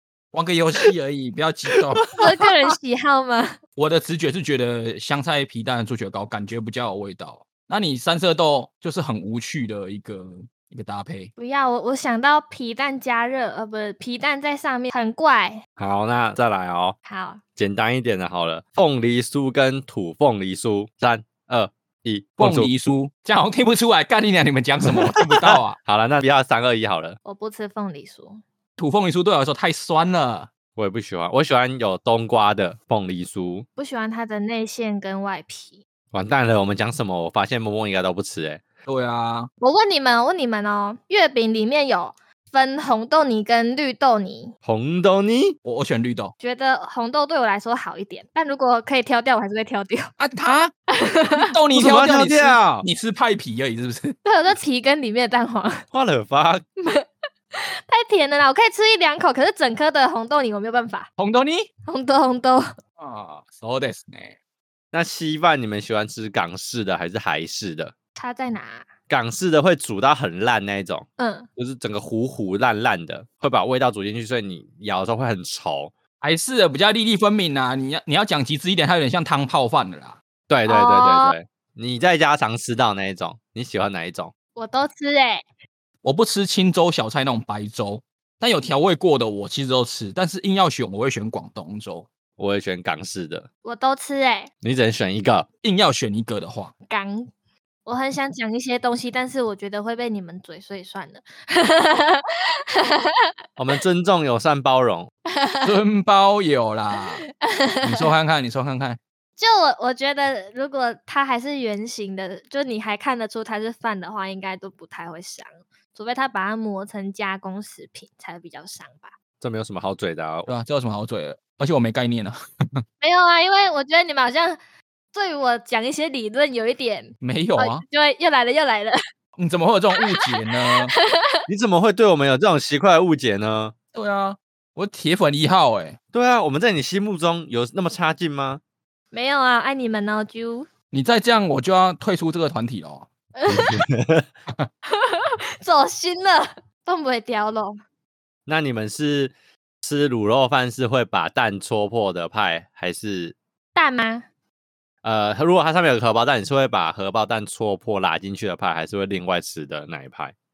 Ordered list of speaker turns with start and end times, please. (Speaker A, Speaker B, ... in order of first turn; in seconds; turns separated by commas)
Speaker A: 0.3-2.1, Speaker B: 2.0-2.5, Speaker C: 2.2-3.6, Speaker A: 3.8-11.3, Speaker C: 11.4-15.6, Speaker B: 15.8-17.0, Speaker C: 17.1-17.4, Speaker B: 17.6-22.7, Speaker A: 22.4-25.8, Speaker B: 24.9-27.2, Speaker C: 27.2-28.4, Speaker A: 28.8-30.5, Speaker B: 30.8-33.7, Speaker C: 33.8-35.8, Speaker B: 36.1-38.6, Speaker A: 38.9-39.5, Speaker C: 39.6-44.5, Speaker B: 44.6-45.6, Speaker A: 45.6-46.3, Speaker C: 46.4-50.1, Speaker A: 50.2-50.7, Speaker C: 50.9-51.5, Speaker A: 51.3-54.2, Speaker B: 51.7-52.9, Speaker C: 54.2-55.8, Speaker B: 55.9-56.6, Speaker C: 56.8-61.1, Speaker A: 61.2-61.7, Speaker C: 61.9-62.8, Speaker A: 63.0-64.4, Speaker B: 64.9-67.9, Speaker C: 68.2-68.9, Speaker B: 69.1-71.1, Speaker C: 71.2-71.5, Speaker B: 71.6-75.9, Speaker A: 76.2-80.2, Speaker B: 80.5-84.3, Speaker C: 80.7-81.3, Speaker C: 84.6-85.4, Speaker A: 86.0-92.1, Speaker B: 92.4-93.5, Speaker C: 93.6-94.5, Speaker B: 94.6-95.5, Speaker A: 95.6-96.7, Speaker C: 96.9-97.3, Speaker C: 97.9-103.3, Speaker B: 103.6-105.1, Speaker C: 105.3-105.7, Speaker A: 105.6-107.2, Speaker C: 107.4-108.1, Speaker A: 107.8-109.0, Speaker C: 109.4-119.2, Speaker B: 119.4-120.5, Speaker A: 120.5-122.8, Speaker C: 123.0-124.6, Speaker C: 125.1-129.0, Speaker A: 127.2-127.8, Speaker A: 129.4-130.9, Speaker C: 130.0-131.4, Speaker B: 131.5-133.7, Speaker A: 133.9-136.0, Speaker B: 136.1-138.6, Speaker C: 139.1-140.7, Speaker A: 140.9-143.1, Speaker C: 143.3-143.8, Speaker B: 143.5-144.3, Speaker C: 144.9-147.8, Speaker B: 148.5-153.4, Speaker C: 153.8-154.3, Speaker B: 155.0-160.3